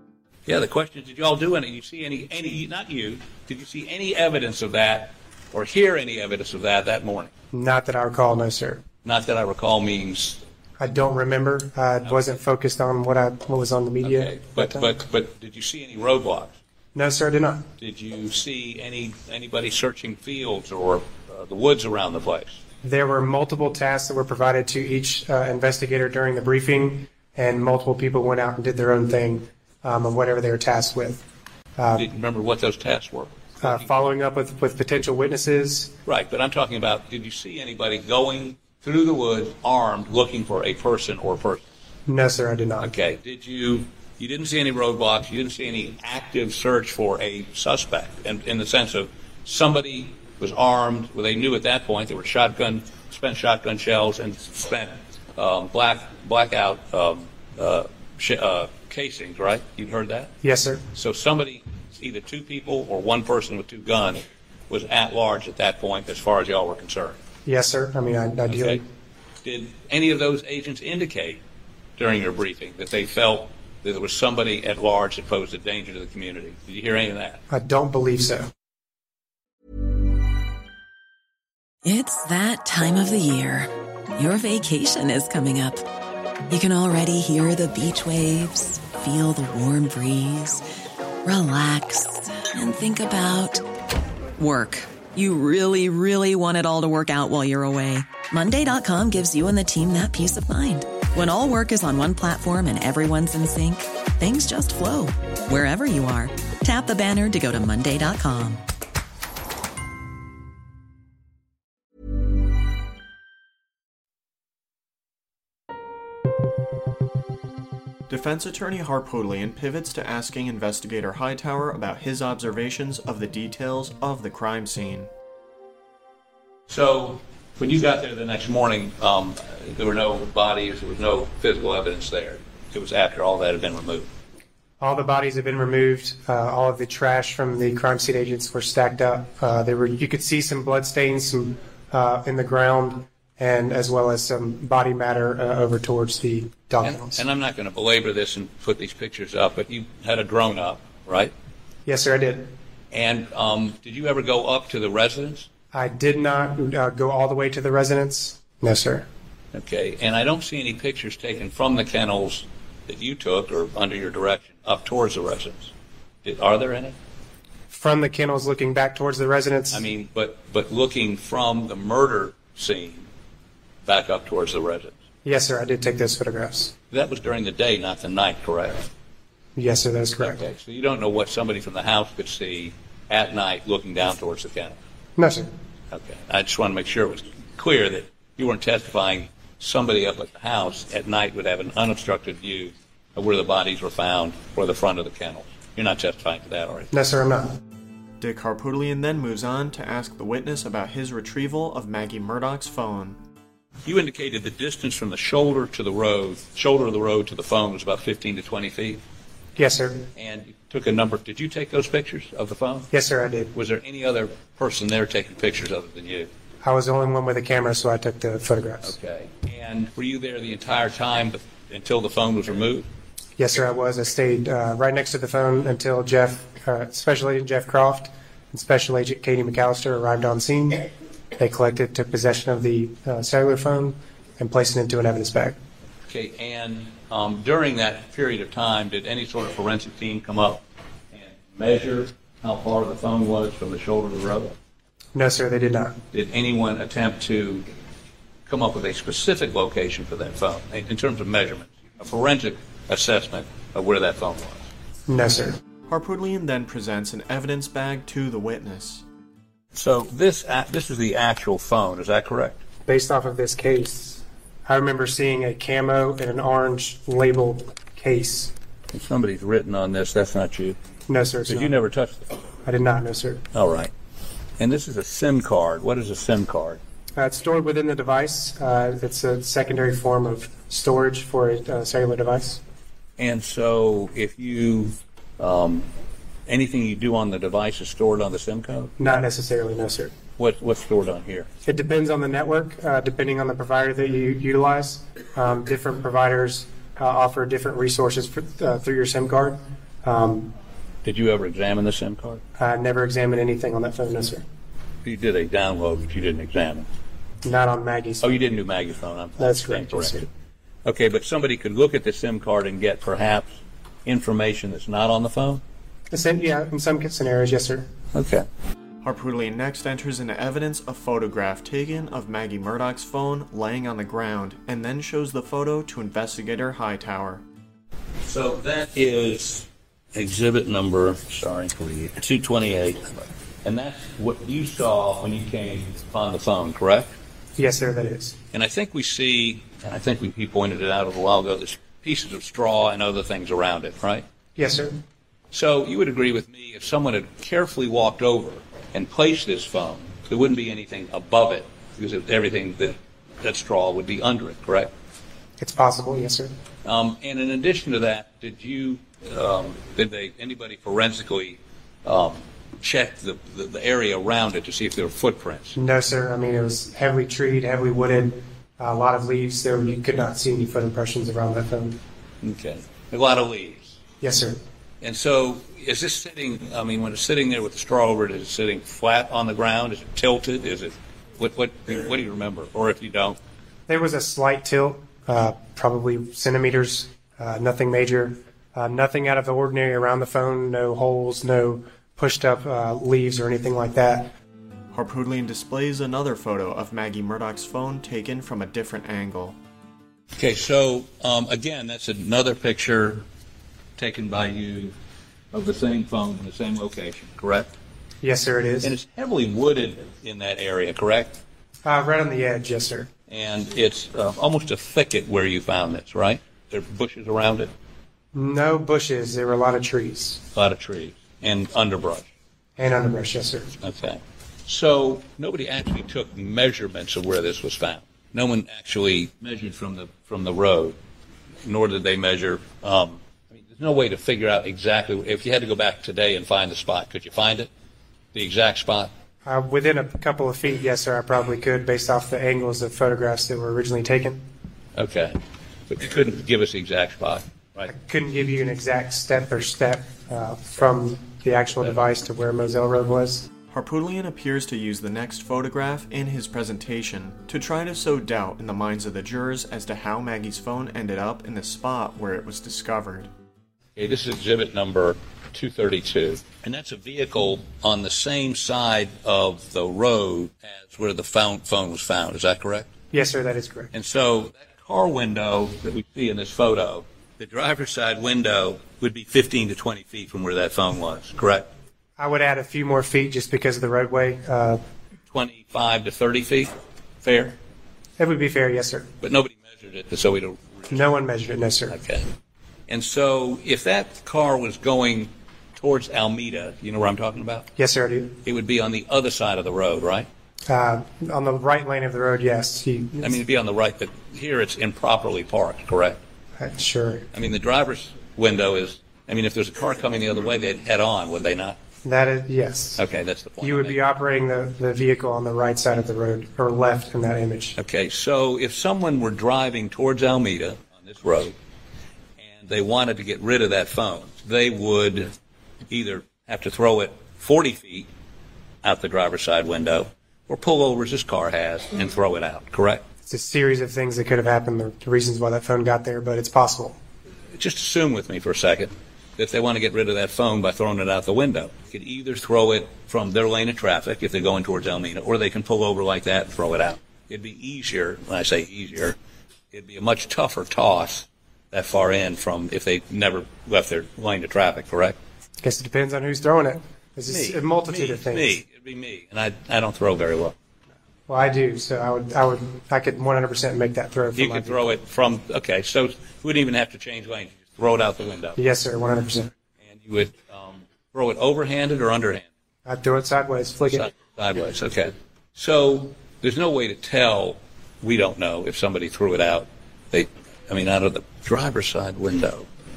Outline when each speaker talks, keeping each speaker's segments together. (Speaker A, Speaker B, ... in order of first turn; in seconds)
Speaker A: 0.5-7.3, 9.0-10.4, 14.0-16.6, 17.8-22.6, 32.0-34.0, 36.1-41.6, 42.8-60.3, 60.9-67.2, 68.5-68.8, 69.4-71.4, 72.0-77.4, 126.7-134.1, 146.8-151.3, 152.9-155.5, 159.5-165.7, 166.2-167.0, 169.7-173.1, 173.8-174.9, 176.9-178.9, 180.2-184.8, 185.9-196.9, 203.8-209.0, 210.2-212.9, 213.5-216.3, 218.8-222.9, 236.1-244.6, 246.1-247.7, 248.5-254.7, 259.7-262.6, 268.9-270.8, 271.5-272.3, 273.5-273.9, 274.6-276.8, 283.2-285.9, 286.5-289.0, 290.4-291.5, 301.0-302.4, 305.0-306.9, 308.2-310.2, 310.9-313.5, 314.1-315.6, 318.1-318.5, 328.2-337.2, 338.5-344.2, 345.5-354.9, 356.8-365.8, 372.4-374.0, 375.0-383.4, 400.4-403.2, 404.0-404.9, 405.5-407.7, 408.8-411.4, 413.3-417.7, 420.5-422.3, 423.8-431.0, 431.6-437.7, 438.3-439.1, 444.9-445.4, 445.9-447.9, 464.0-472.9, 473.9-481.7, 485.3-487.6, 489.2-491.0, 491.9-492.3, 492.9-497.7, 498.4-500.3, 503.2-506.2, 507.3-511.8, 513.0-514.0, 517.8-521.5, 522.4-525.3, 525.9-528.1, 528.8-533.0, 537.5-549.2, 549.7-555.2, 557.3-560.6, 564.4-568.6, 569.8-572.5, 573.9-582.7
Speaker B: 7.5-8.8, 10.8-14.9, 16.9-17.7, 22.8-31.2, 31.8-32.1, 33.6-35.9, 42.1-42.9, 60.4-60.8, 67.5-68.8, 77.5-78.5, 134.8-147.2, 151.9-152.5, 155.7-159.1, 167.7-169.8, 175.2-176.7, 179.6-180.4, 185.2-185.5, 196.9-197.6, 209.6-210.1, 212.9-213.5, 216.6-218.9, 223.4-230.9, 231.4-235.6, 245.2-246.0, 255.1-255.6, 262.9-268.5, 271.1-271.8, 272.6-273.4, 277.2-282.6, 289.0-290.1, 291.6-300.5, 302.6-304.4, 307.4-308.3, 309.4-310.3, 316.1-317.9, 337.6-338.4, 344.6-345.0, 355.6-356.5, 365.8-372.0, 374.2-374.6, 383.9-394.3, 408.2-408.9, 411.9-413.1, 418.3-420.4, 422.8-423.7, 439.4-444.5, 447.9-453.5, 473.1-473.9, 482.2-484.8, 488.2-489.1, 490.9-492.0, 497.8-498.4, 500.7-503.4, 506.6-507.3, 512.0-513.0, 513.6-517.8, 533.3-537.0, 555.6-558.6, 561.3-564.9, 568.6-569.5, 572.9-574.1
Speaker C: 81.8-85.8, 86.5-90.7, 91.2-93.6, 94.4-108.6
Speaker D: 118.1-125.1, 198.2-203.2, 255.9-259.0, 319.0-327.4, 394.9-399.6, 453.7-463.3